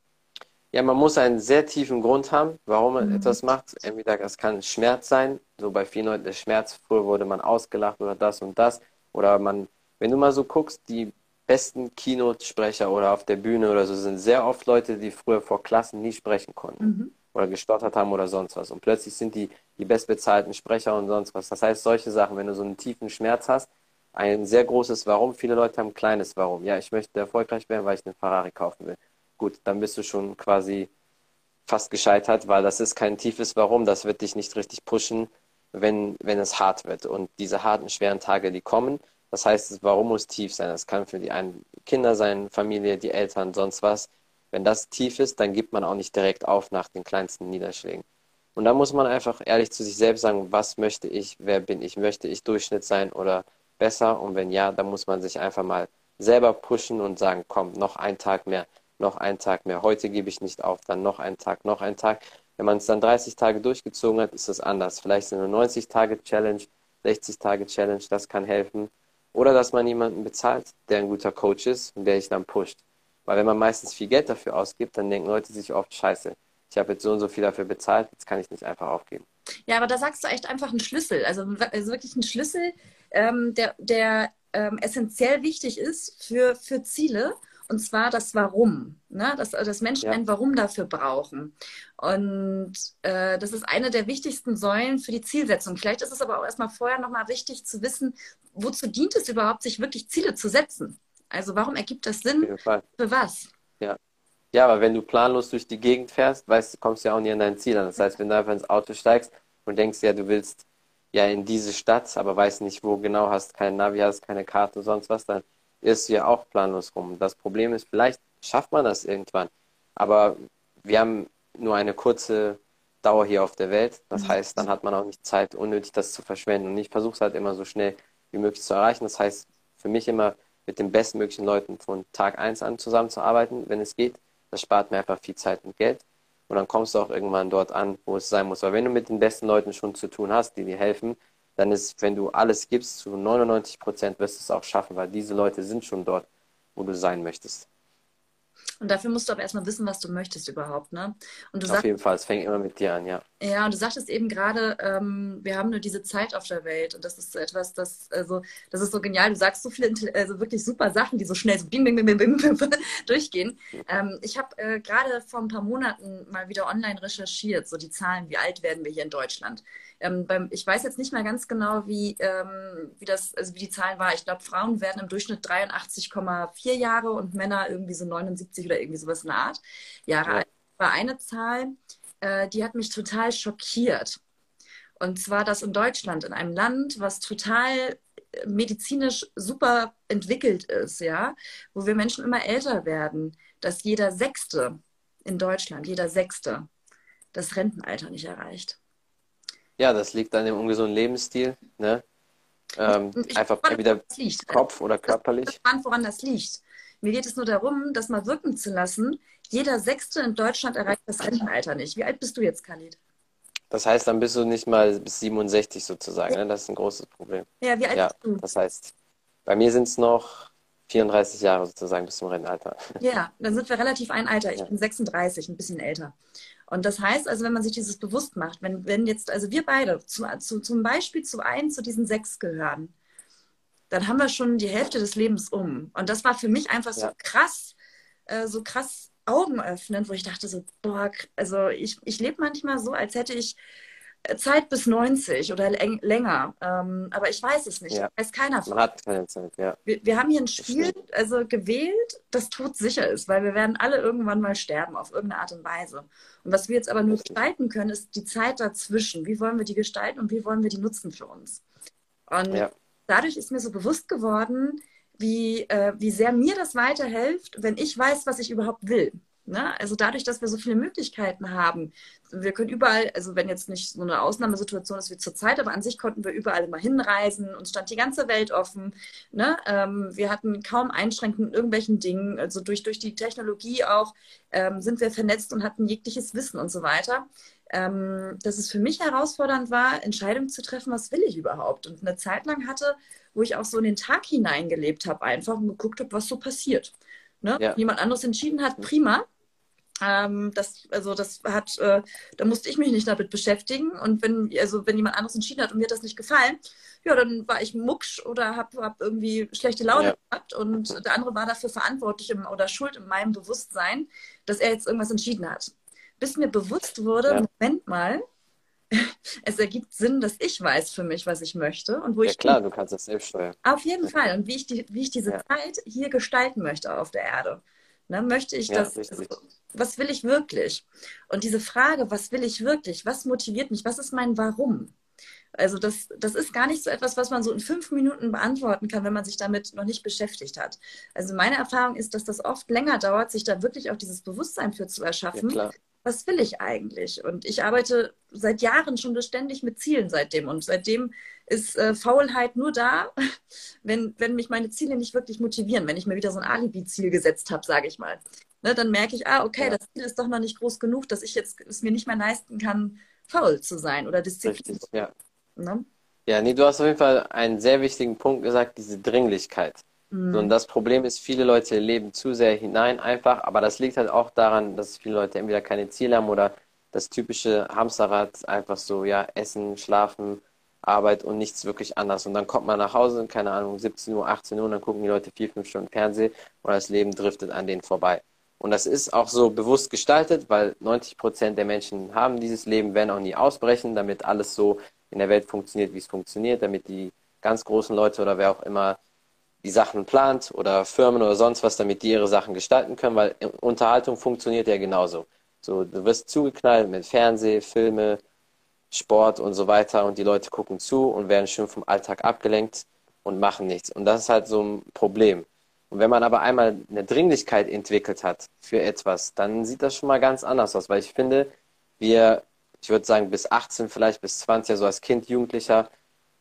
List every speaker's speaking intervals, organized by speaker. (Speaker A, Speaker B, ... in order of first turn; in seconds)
Speaker A: 0.7-30.9, 31.7-48.0, 48.5-79.2, 102.4-102.8, 104.5-147.7, 151.7-153.2, 199.8-202.0, 202.8-205.6, 213.7-218.9, 219.4-222.9, 248.7-249.8, 250.6-250.9, 257.1-257.3, 322.2-323.6, 328.7-329.3, 345.3-345.7, 364.4-365.1, 366.2-399.0, 399.6-408.2, 408.9-421.5, 422.0-425.9
Speaker B: 3.0-3.4, 16.8-17.1, 79.7-103.5, 148.8-151.8, 153.4-184.2, 185.0-196.7, 197.3-198.8, 202.9-213.0, 217.6-218.4, 223.0-226.1, 226.7-232.9, 233.9-237.7, 238.3-243.6, 244.2-248.7, 249.8-261.6, 262.3-299.2, 300.0-318.2, 318.9-322.6, 323.6-334.9, 335.6-353.1, 353.8-364.9, 365.6-365.8, 370.1-370.5